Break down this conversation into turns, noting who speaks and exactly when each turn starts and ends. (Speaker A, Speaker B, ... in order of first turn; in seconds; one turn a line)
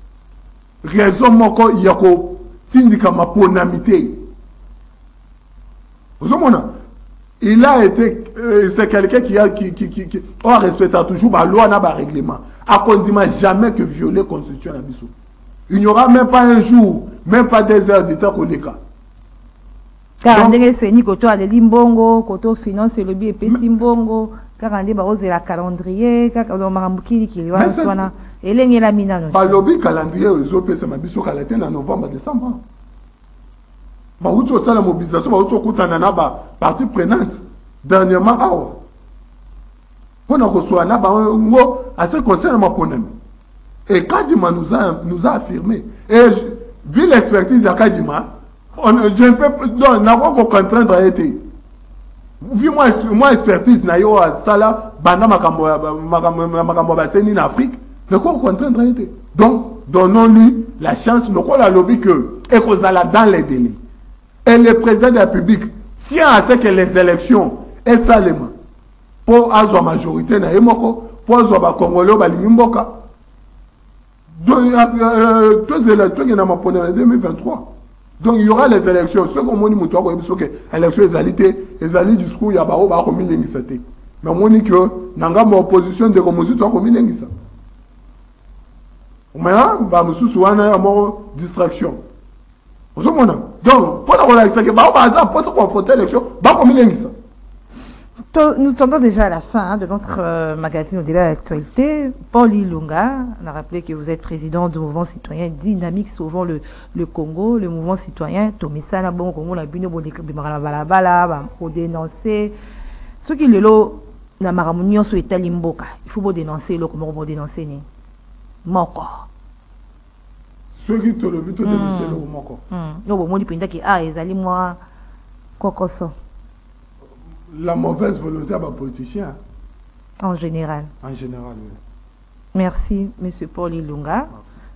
Speaker A: 0.8-4.2
Speaker A: 6.2-6.7
Speaker A: 7.4-15.1
Speaker A: 15.7-18.8
Speaker B: 20.2-29.6
Speaker A: 20.3-20.6
Speaker A: 27.5-28.1
Speaker A: 29.3-32.6
Speaker A: 34.2-38.8
Speaker A: 40.3-43.1
Speaker A: 43.9-51.4
Speaker A: 52.4-63.8
Speaker A: 64.4-68.5
Speaker A: 69.2-72.9
Speaker A: 74.4-87.3
Speaker A: 89.3-92.0
Speaker A: 92.9-97.1
Speaker B: 98.3-112.5
Speaker B: 113.2-117.8
Speaker B: 118.6-119.3
Speaker A: 120.8-122.6
Speaker B: 121.6-124.8
Speaker B: 125.6-126.1
Speaker A: 127.5-129.4
Speaker B: 130.2-130.9
Speaker A: 131.0-131.8
Speaker B: 132.5-134.3